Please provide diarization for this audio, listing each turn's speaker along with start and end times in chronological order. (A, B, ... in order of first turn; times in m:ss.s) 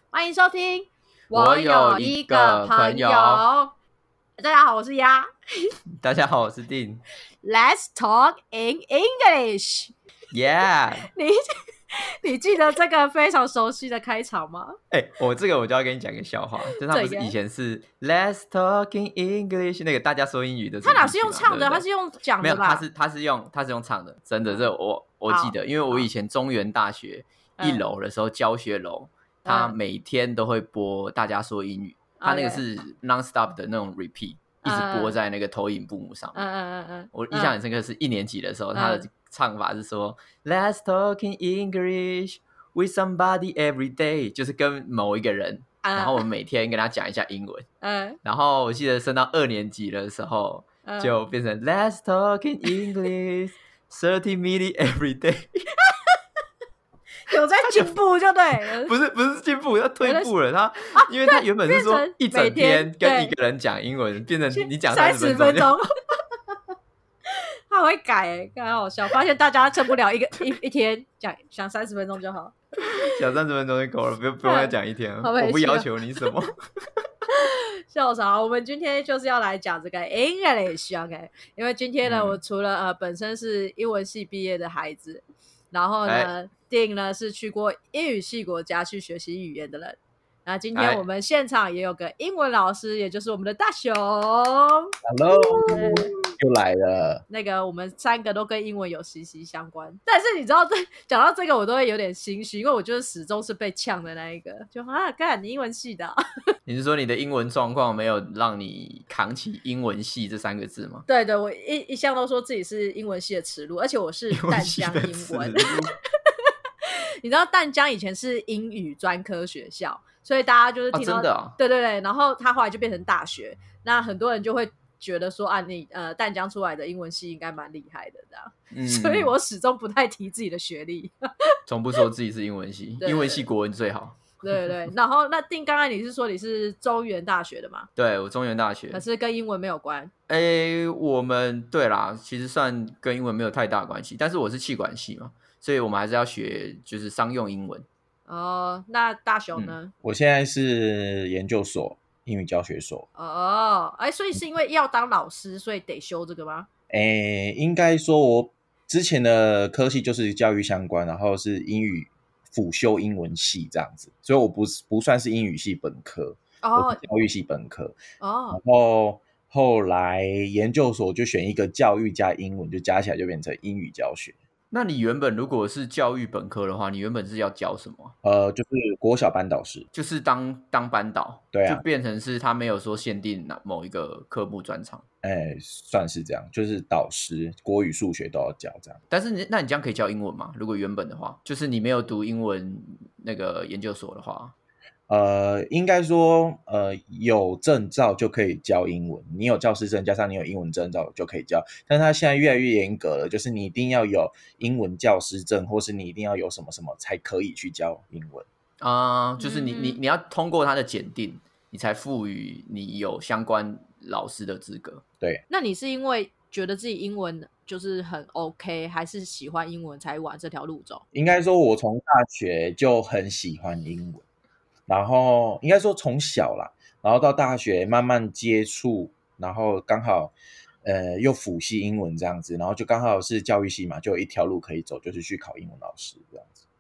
0:00.1-0:03.7 A
0:01.3-0:03.4 B
0:04.4-0:05.7 A
0:06.0-0:07.0 B
0:07.4-0:09.9 A
0:10.3-0:11.1 B
0:11.1-0:11.4 A
0:11.9-0:14.8 A
0:14.9-0:21.8 B
0:16.8-0:17.3 A
0:20.8-0:22.8 A
0:22.4-0:36.4 B
0:25.3-0:26.1 A
0:27.6-0:27.8 A
0:29.4-0:29.8 A
0:32.2-0:32.6 A
0:34.6-0:35.2 A
0:36.3-0:37.5 A
0:37.1-0:47.7 B
0:38.7-0:39.1 A
0:45.8-0:46.2 A
0:47.8-0:48.2 A
0:48.2-0:55.7 B
0:50.8-0:51.1 A
0:52.7-0:53.0 A
0:57.2-0:58.9 A
0:57.6-0:58.0 B
0:58.7-1:05.8 B
1:00.0-1:00.3 A
1:01.0-1:03.3 A
1:04.5-1:05.9 A
1:07.7-1:13.1 A
1:12.8-1:16.5 B
1:14.4-1:15.9 A
1:17.3-1:36.3 A
1:22.0-1:22.4 B
1:26.0-1:26.3 B
1:30.7-1:31.0 B
1:35.0-1:37.2 C
1:37.3-1:46.2 A
1:46.6-1:51.0 B
1:51.1-1:55.7 A
1:54.3-1:55.9 B
1:56.8-2:11.1 A
2:00.9-2:01.6 B
2:08.7-2:09.3 B
2:11.7-2:14.9 B
2:13.0-2:13.4 A
2:14.4-2:17.9 A
2:18.0-2:19.0 B
2:18.9-2:20.1 A
2:20.3-2:27.9 B
2:28.3-2:29.9 A
2:30.0-2:33.1 C
2:33.2-2:36.7 A
2:36.9-2:48.0 C
2:46.6-2:47.0 A
2:48.2-2:48.6 A
2:48.5-2:54.4 C
2:54.7-2:58.1 B
2:58.2-2:59.9 C
2:59.9-3:05.0 B
3:01.5-3:01.8 C
3:05.2-3:09.0 C
3:09.1-3:14.5 B
3:15.1-3:28.5 C
3:28.8-3:35.0 B
3:29.4-3:30.0 A
3:35.5-3:41.0 A
3:41.1-3:44.2 C
3:44.9-3:50.3 C
3:50.8-3:56.6 C